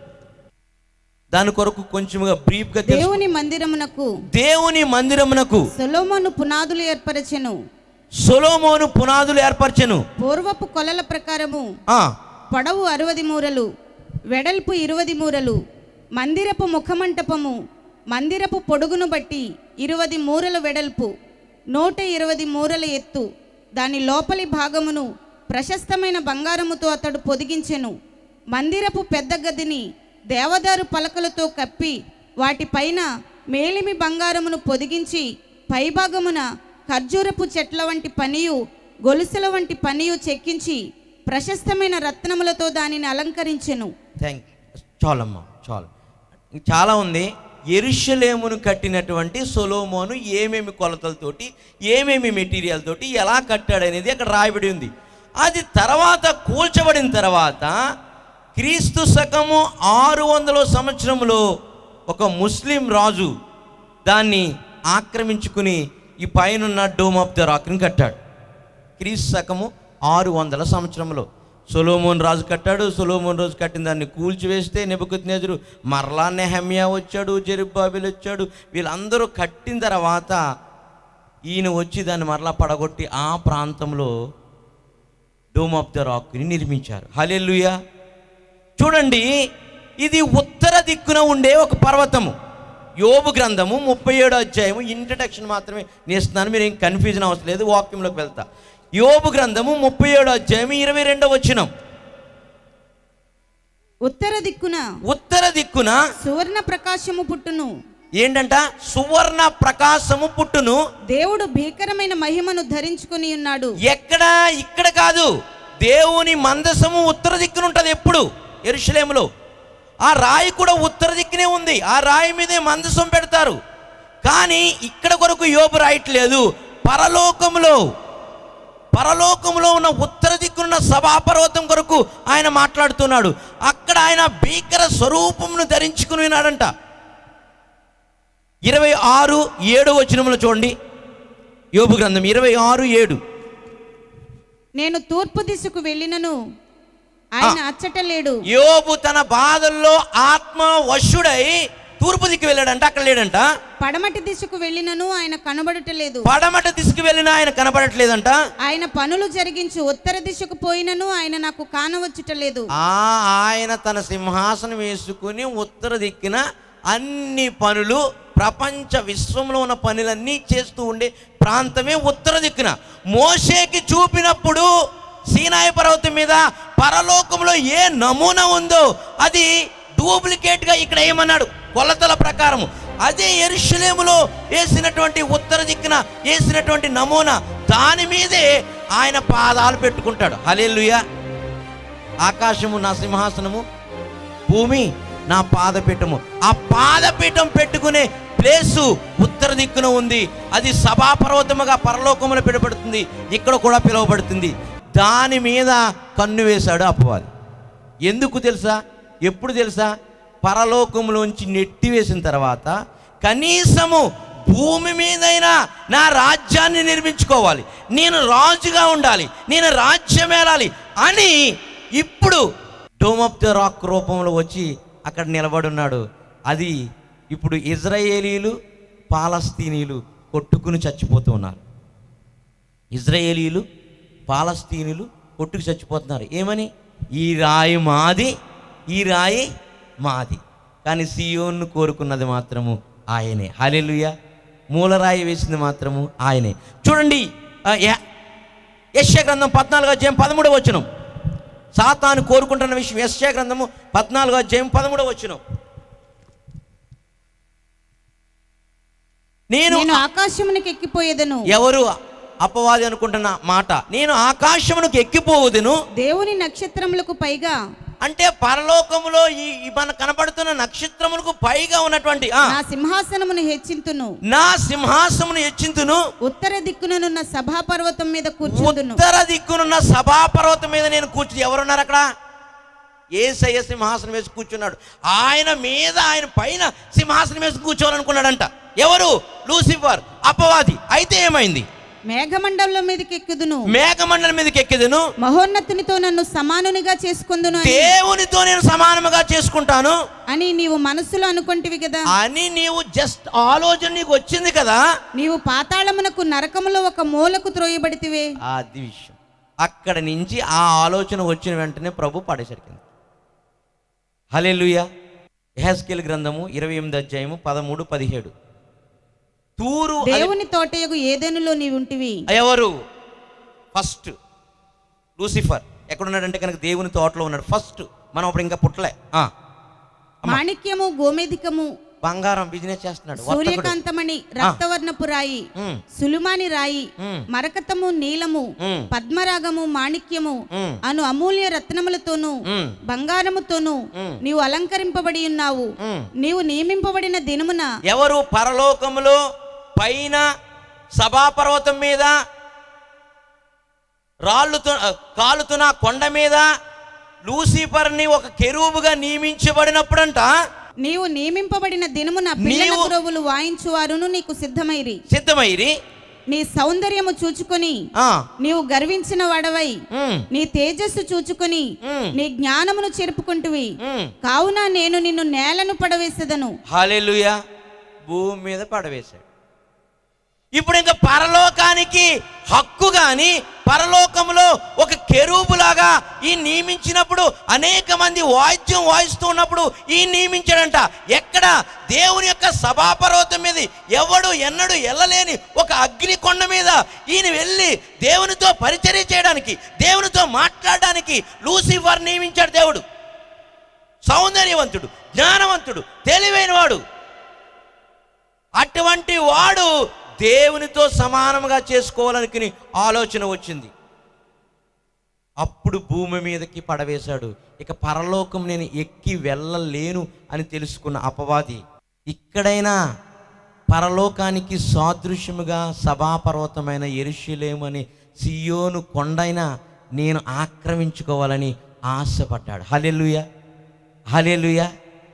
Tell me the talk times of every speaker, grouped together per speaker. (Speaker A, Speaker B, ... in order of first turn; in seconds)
Speaker A: 1.3-3.1, 4.3-5.7, 8.2-10.0, 45.0-45.9, 46.6-54.9, 55.4-57.7, 58.5-61.4, 62.1-63.3, 64.1-68.2, 69.0-80.4, 81.5-84.1, 85.5-87.7, 88.8-89.3, 90.0-92.3, 93.0-98.4, 99.0-101.7, 105.1-106.0, 108.2-110.8, 113.8-115.3, 115.8-119.2, 120.1-123.6, 124.2-127.8, 128.9-136.7, 138.7-140.7, 141.8-143.2, 148.5-153.5, 156.2-158.4, 162.8-174.7, 175.3-191.0, 192.2-193.6, 194.5-207.3, 208.1-209.9, 210.4-221.3, 222.0-222.4, 223.0-226.7, 227.3-228.5, 229.1-231.6, 232.9-233.6, 234.3-238.3, 238.9-239.5, 240.0-244.1, 244.7-248.0, 249.0-250.8, 251.8-255.4, 259.5-260.0, 261.5-261.9, 262.4-265.8, 268.0-272.5, 274.3-276.0, 278.4-282.0, 283.2-291.6, 293.7-295.1, 297.6-300.0, 302.1-304.8, 308.5-312.8, 314.3-314.8, 315.6-318.3, 319.6-320.3, 322.3-322.7, 323.7-324.1, 325.2-329.3, 332.0-333.7, 335.6-335.8, 338.6-338.9, 340.5-340.8, 342.4-342.8, 345.8-346.1, 347.9-349.2, 349.8-350.2, 351.0-352.1, 354.3-356.4, 357.2-360.3, 362.4-362.9, 365.1-365.7, 368.0-368.2, 369.9-370.2, 371.8-372.1, 373.8-374.1, 376.7-377.4, 378.1-379.2, 380.6-402.8, 404.1-406.8, 408.6-409.7, 410.2-413.7, 415.4-422.7, 423.7-429.4, 430.0-433.2, 434.1-434.7
Speaker B: 2.9-4.1, 5.7-7.5, 10.2-11.7, 12.5-13.7, 14.3-15.6, 16.2-17.6, 18.1-21.1, 21.7-23.3, 23.8-27.9, 28.5-43.9, 104.0-104.8, 106.2-107.7, 111.1-113.8, 144.8-146.3, 147.4-148.4, 153.8-156.3, 158.6-162.7, 259.7-261.5, 266.0-267.6, 272.5-274.1, 276.2-279.0, 292.1-293.7, 295.2-297.9, 300.3-302.0, 305.1-308.3, 320.0-322.2, 330.3-331.7, 333.2-347.7, 360.8-365.0, 366.3-367.8, 368.4-369.8, 370.3-373.7, 374.2-376.5